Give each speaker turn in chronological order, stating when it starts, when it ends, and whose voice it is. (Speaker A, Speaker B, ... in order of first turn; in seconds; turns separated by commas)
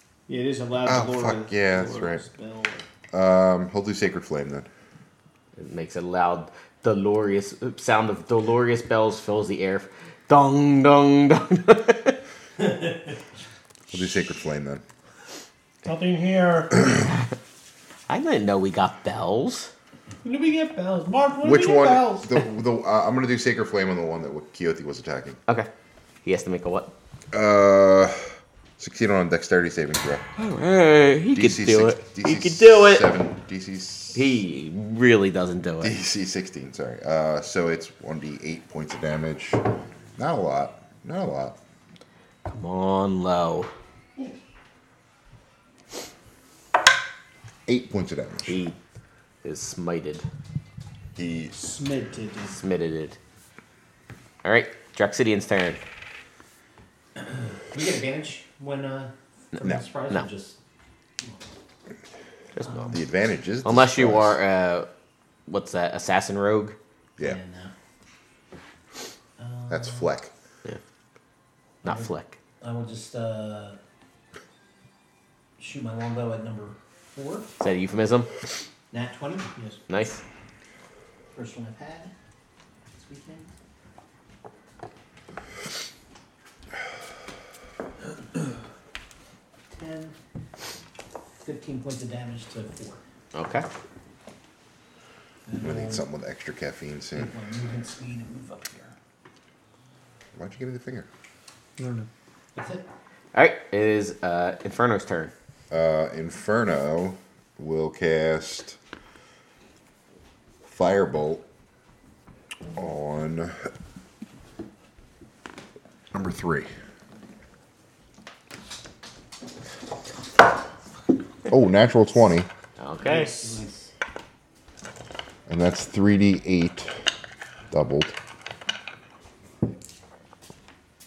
Speaker A: 0.3-2.8, Speaker B: 0.8-2.2, Speaker B: 3.1-4.7, Speaker C: 5.5-12.2, Speaker D: 12.6-13.1, Speaker B: 13.9-14.8, Speaker E: 15.8-16.7, Speaker C: 18.1-19.7, Speaker E: 20.2-22.3, Speaker B: 21.4-25.4, Speaker C: 26.2-26.9, Speaker B: 27.3-30.2, Speaker C: 30.4-33.1, Speaker B: 31.3-34.3, Speaker C: 34.1-35.9, Speaker B: 35.8-39.6, Speaker B: 40.2-41.6, Speaker C: 42.5-43.7, Speaker B: 47.7-48.6, Speaker C: 48.5-48.8, Speaker C: 49.4-50.2, Speaker B: 51.1-51.5, Speaker A: 51.5-52.6, Speaker C: 52.5-53.2, Speaker C: 54.4-55.8, Speaker D: 57.2-60.6, Speaker C: 62.5-62.9, Speaker D: 62.6-63.0, Speaker B: 62.9-64.4, Speaker C: 63.6-64.9, Speaker C: 65.5-66.8, Speaker D: 67.2-67.7, Speaker D: 69.4-70.1, Speaker B: 69.7-70.3, Speaker C: 71.8-72.4, Speaker D: 72.6-73.8, Speaker D: 75.6-77.5, Speaker C: 77.6-78.3, Speaker D: 78.9-79.5, Speaker C: 79.9-80.2, Speaker D: 81.3-82.1, Speaker D: 82.9-83.5, Speaker D: 89.7-90.2, Speaker D: 91.4-93.0, Speaker C: 93.3-93.7, Speaker D: 95.5-96.0, Speaker B: 95.6-97.3, Speaker D: 97.1-98.9, Speaker B: 100.3-101.1, Speaker E: 101.8-102.1, Speaker D: 102.5-102.8, Speaker C: 103.3-105.3, Speaker B: 105.7-108.8, Speaker B: 110.7-111.4, Speaker B: 112.7-113.5, Speaker B: 116.1-116.7, Speaker B: 121.5-122.5, Speaker C: 122.8-123.4, Speaker A: 123.0-123.5, Speaker D: 123.1-123.9, Speaker B: 125.5-126.9, Speaker B: 127.7-128.2